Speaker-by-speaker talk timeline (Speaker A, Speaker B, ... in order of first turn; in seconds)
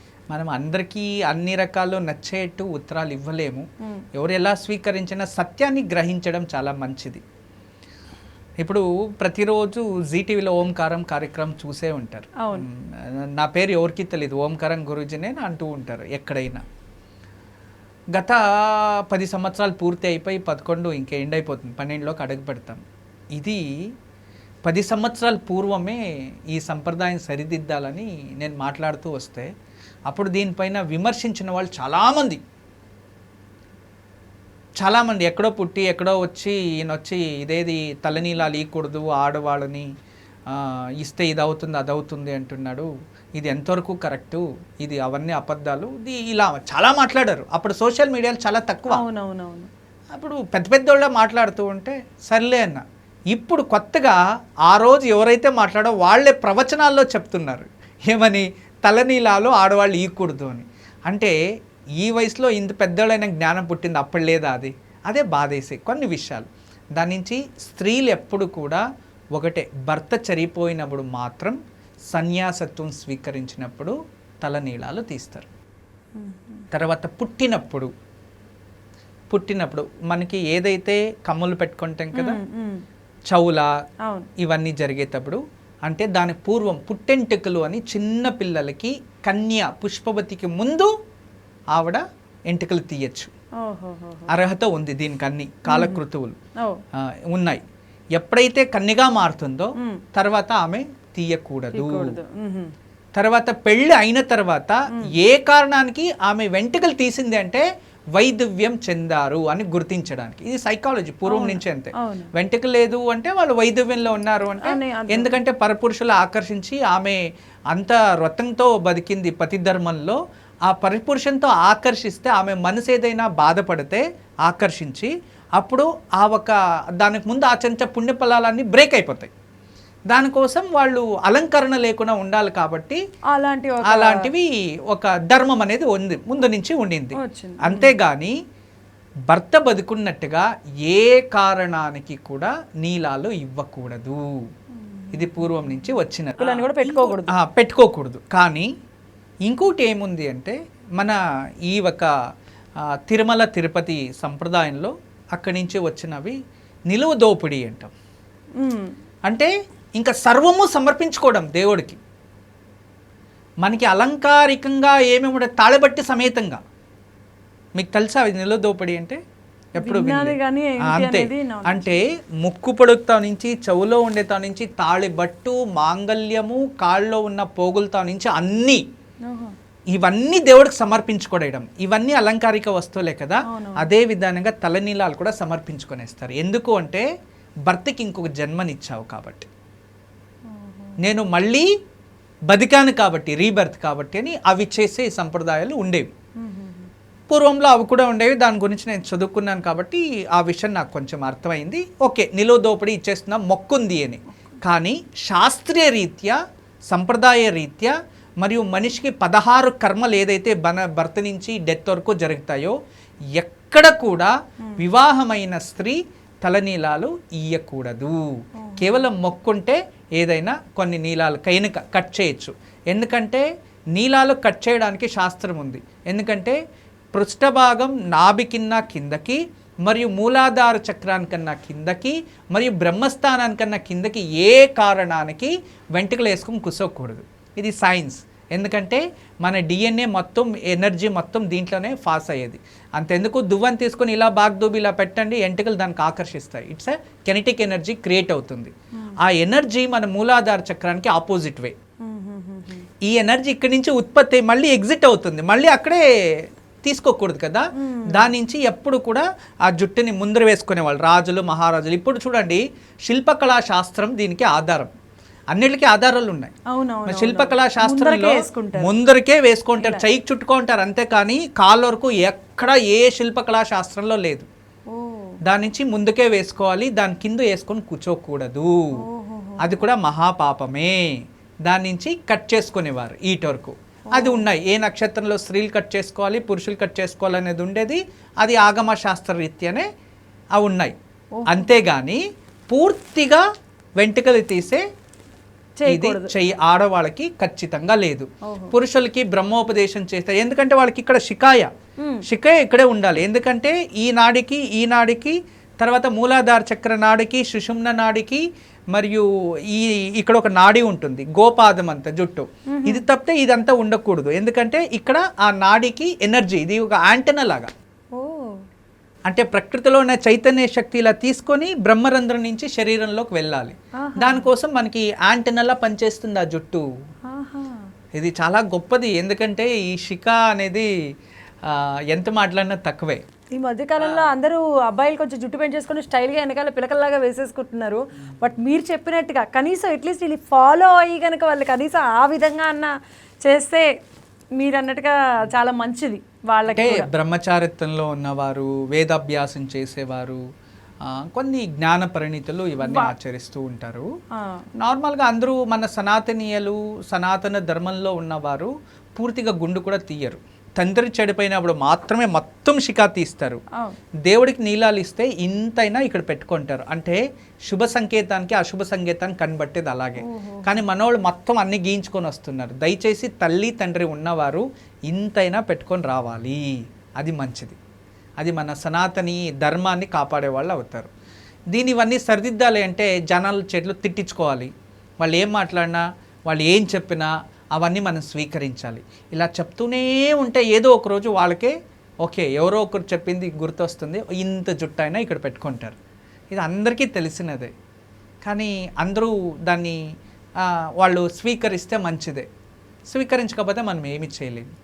Speaker A: 0.3-7.2, 8.6-16.6, 18.1-22.8, 23.4-23.9, 24.6-29.5, 30.1-32.4, 34.8-39.9, 40.5-49.0, 50.1-61.4, 62.0-68.8, 69.4-71.6, 72.1-75.5, 76.7-77.9, 79.3-82.4, 83.3-83.7, 84.4-90.9, 91.7-93.3, 94.3-96.4, 97.0-97.6, 98.2-102.2, 103.2-129.3, 130.1-133.0, 133.9-138.3, 139.3-144.2, 145.1-148.7, 149.5-152.1, 152.9-156.4, 156.9-157.9, 159.3-162.0, 163.6-166.6, 167.8-169.2, 169.7-178.8, 179.9-187.1, 187.7-189.5, 191.0-191.7, 192.5-196.1, 197.3-206.4, 206.9-212.8, 213.4-226.6, 227.1-251.7, 253.0-264.9, 265.5-266.5, 267.1-274.5, 275.4-278.8, 279.6-281.1, 281.7-289.9, 290.6-290.9, 291.5-293.4, 294.0-294.8, 295.9-301.7, 302.2-317.7, 319.3-326.9, 328.1-330.9, 331.6-333.2, 334.0-334.3, 346.7-350.4, 351.1-354.1, 354.8-363.6, 364.3-377.8, 378.4-381.1, 381.7-391.7, 392.2-396.0, 396.5-397.7, 398.4-400.0, 400.6-402.5, 403.1-404.7
Speaker B: 12.4-12.7, 48.9-49.7, 76.2-76.7, 82.2-82.8, 93.6-94.3, 95.7-96.0, 99.8-100.0, 101.7-102.7, 111.3-112.3, 114.6-115.3, 133.3-134.3, 137.2-138.0, 144.8-145.5, 146.4-147.3, 158.6-158.9, 169.8-171.9, 179.3-179.5, 183.5-183.9, 190.5-191.0, 196.4-196.9, 218.6-219.1, 252.0-252.9, 257.8-258.3, 266.7-268.9, 274.9-275.4, 279.0-279.8, 284.1-284.5, 291.4-291.7, 295.8-296.3, 298.4-298.8, 302.0-302.3, 312.7-313.0, 318.2-318.6, 324.0-324.5, 327.3-327.9, 333.5-342.9, 343.4-343.9, 344.6-347.1, 352.8-353.1, 354.4-354.6, 370.2-370.8